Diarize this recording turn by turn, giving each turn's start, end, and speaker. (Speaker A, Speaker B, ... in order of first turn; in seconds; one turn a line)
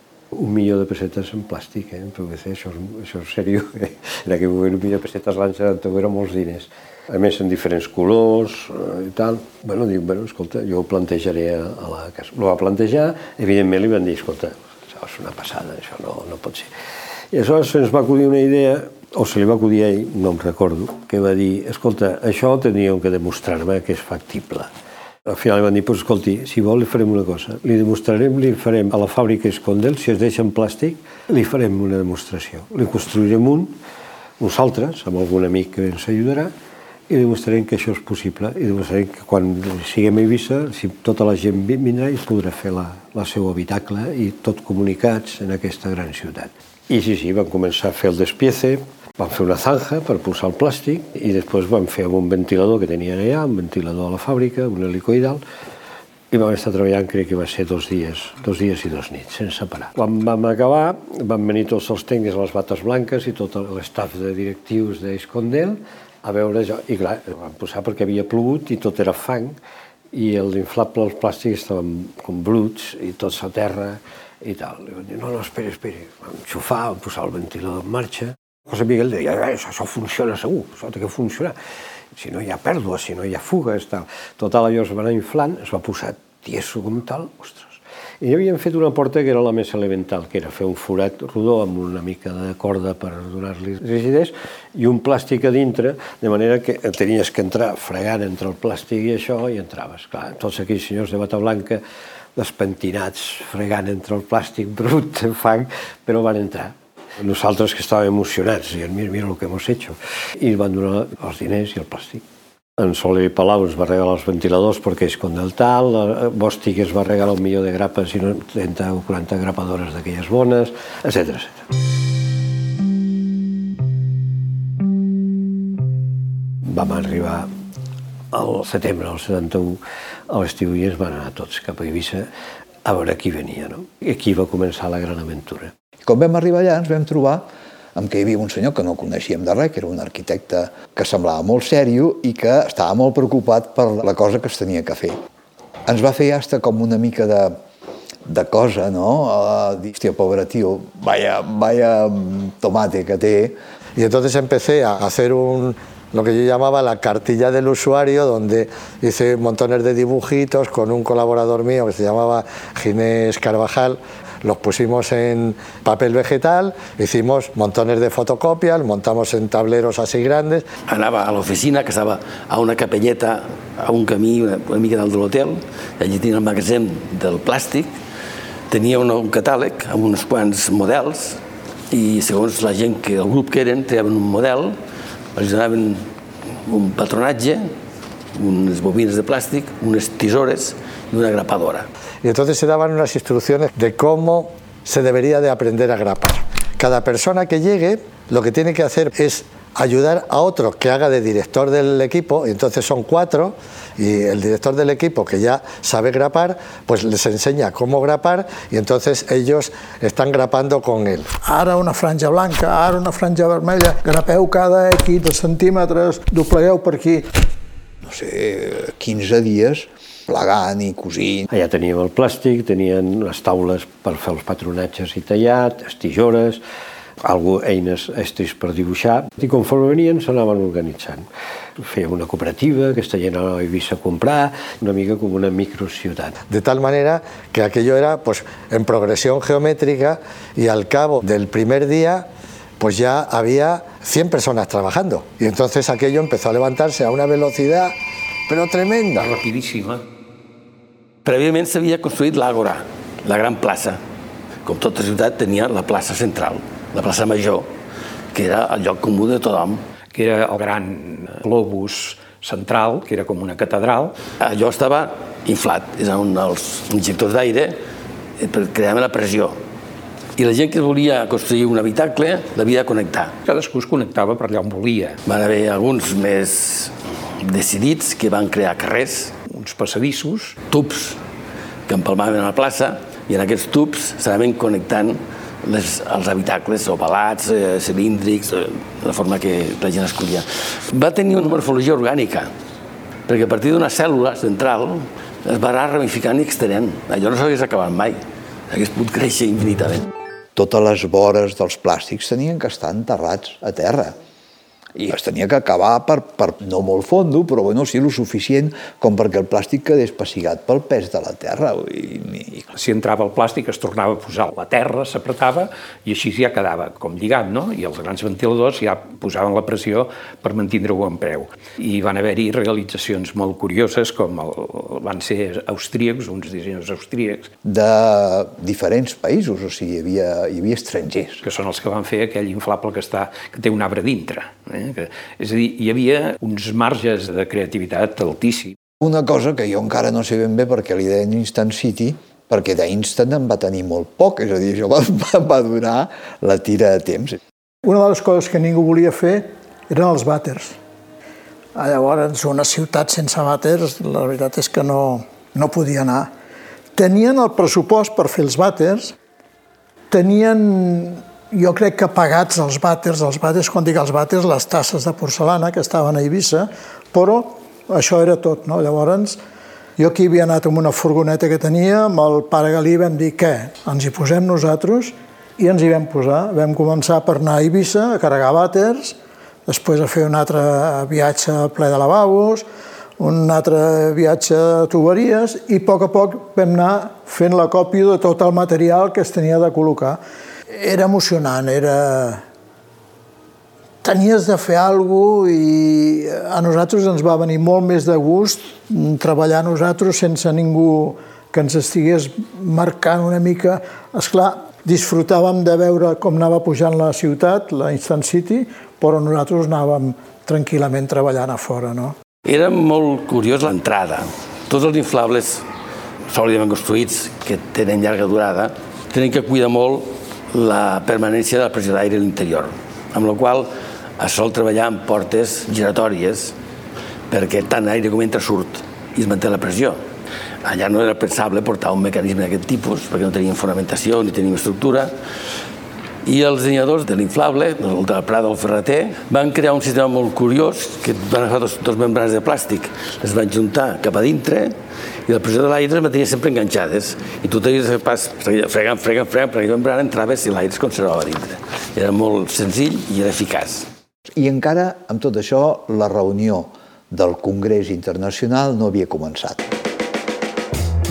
Speaker A: 0.3-16.7
Speaker A: 17.3-24.7
Speaker A: 25.3-33.8
Speaker A: 34.4-36.5
Speaker A: 37.1-55.4
Speaker A: 56.3-69.6
Speaker A: 70.1-81.5
Speaker A: 82.1-101.8
Speaker A: 102.3-112.2
Speaker A: 112.8-121.7
Speaker A: 126.6-127.5
Speaker A: 128.3-132.3
Speaker A: 132.8-135.7
Speaker B: 136.1-145.2
Speaker B: 145.9-147.6
Speaker B: 148.3-153.6
Speaker C: 154.0-170.7
Speaker D: 170.9-177.9
Speaker D: 178.7-181.4
Speaker D: 181.9-184.8
Speaker D: 185.3-186.1
Speaker D: 186.6-187.7
Speaker D: 188.3-191.9
Speaker C: 192.2-211.3
Speaker E: 211.4-217.3
Speaker B: 218.0-221.5
Speaker A: 221.5-226.6
Speaker A: 227.2-236.4
Speaker C: 236.5-242.3
Speaker C: 242.8-247.9
Speaker C: 248.5-249.3
Speaker F: 249.2-250.0
Speaker D: 251.2-254.0
Speaker D: 254.7-257.7
Speaker D: 258.3-259.8
Speaker F: 260.1-264.2
Speaker D: 264.4-267.8
Speaker D: 268.4-269.6
Speaker D: 270.4-273.4
Speaker F: 273.4-275.2
Speaker D: 275.3-279.4
Speaker F: 279.5-280.6
Speaker D: 280.7-281.2
Speaker D: 281.9-292.5
Speaker D: 293.3-298.2
Speaker D: 298.7-300.1
Speaker B: 300.6-304.2
Speaker B: 305.0-312.7
Speaker F: 312.7-327.5
Speaker B: 327.6-331.4
Speaker F: 331.4-338.8
Speaker B: 339.0-347.4
Speaker E: 347.9-350.8
Speaker E: 351.8-356.3
Speaker E: 356.9-359.1
Speaker E: 360.1-369.4
Speaker E: 370.0-379.2
Speaker E: 379.7-382.7
Speaker E: 383.2-390.2
Speaker E: 390.7-392.4
Speaker E: 394.0-412.2
Speaker D: 412.4-415.7
Speaker D: 416.3-426.6
Speaker D: 427.3-430.0
Speaker D: 430.6-435.1
Speaker D: 436.2-444.8
Speaker D: 445.3-453.9
Speaker B: 454.4-459.7